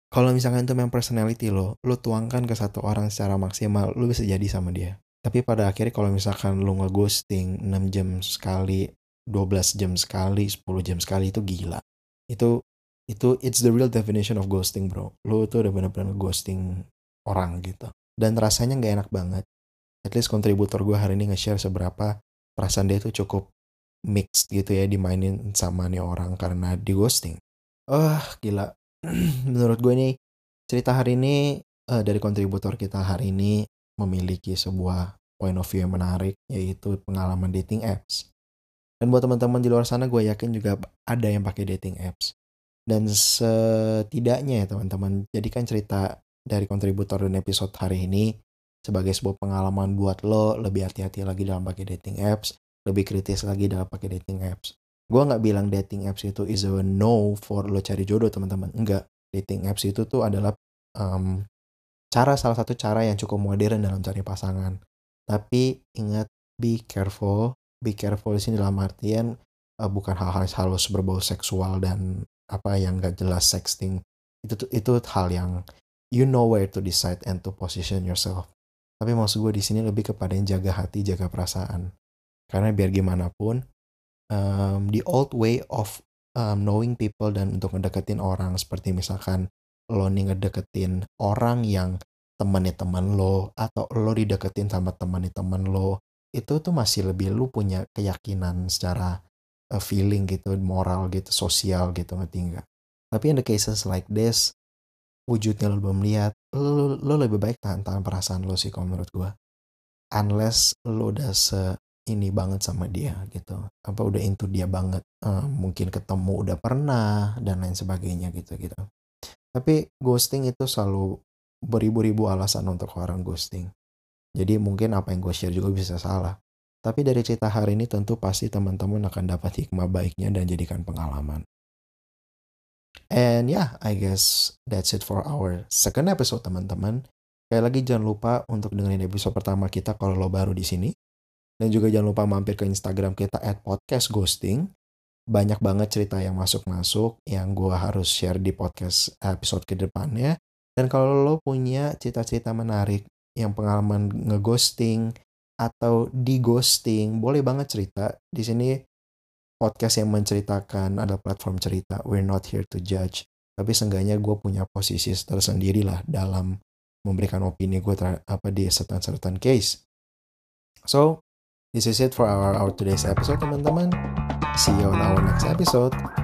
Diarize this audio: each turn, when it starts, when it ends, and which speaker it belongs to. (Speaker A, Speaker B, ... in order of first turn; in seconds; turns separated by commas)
Speaker A: 0.1-8.8, Speaker A: 9.3-11.8, Speaker A: 13.1-16.6, Speaker A: 17.3-19.4, Speaker A: 20.1-23.4, Speaker A: 24.1-27.4, Speaker A: 27.9-30.1, Speaker A: 30.7-31.4, Speaker A: 32.0-38.2, Speaker A: 39.0-42.3, Speaker A: 42.9-48.3, Speaker A: 48.9-61.3, Speaker A: 62.1-64.7, Speaker A: 65.3-69.3, Speaker A: 69.8-75.6, Speaker A: 76.2-78.5, Speaker A: 79.0-81.9, Speaker A: 82.5-83.6, Speaker A: 84.3-89.4, Speaker A: 90.0-99.1, Speaker A: 99.8-104.4, Speaker A: 105.3-109.3, Speaker A: 110.2-118.8, Speaker A: 119.5-121.1, Speaker A: 121.7-123.7, Speaker A: 124.4-126.3, Speaker A: 126.8-131.4, Speaker A: 133.2-137.0, Speaker A: 137.5-140.9, Speaker A: 141.6-144.6, Speaker A: 145.3-155.1, Speaker A: 155.6-158.7, Speaker A: 159.6-166.5, Speaker A: 167.1-169.8, Speaker A: 170.9-171.1, Speaker A: 171.8-173.9, Speaker A: 174.6-175.9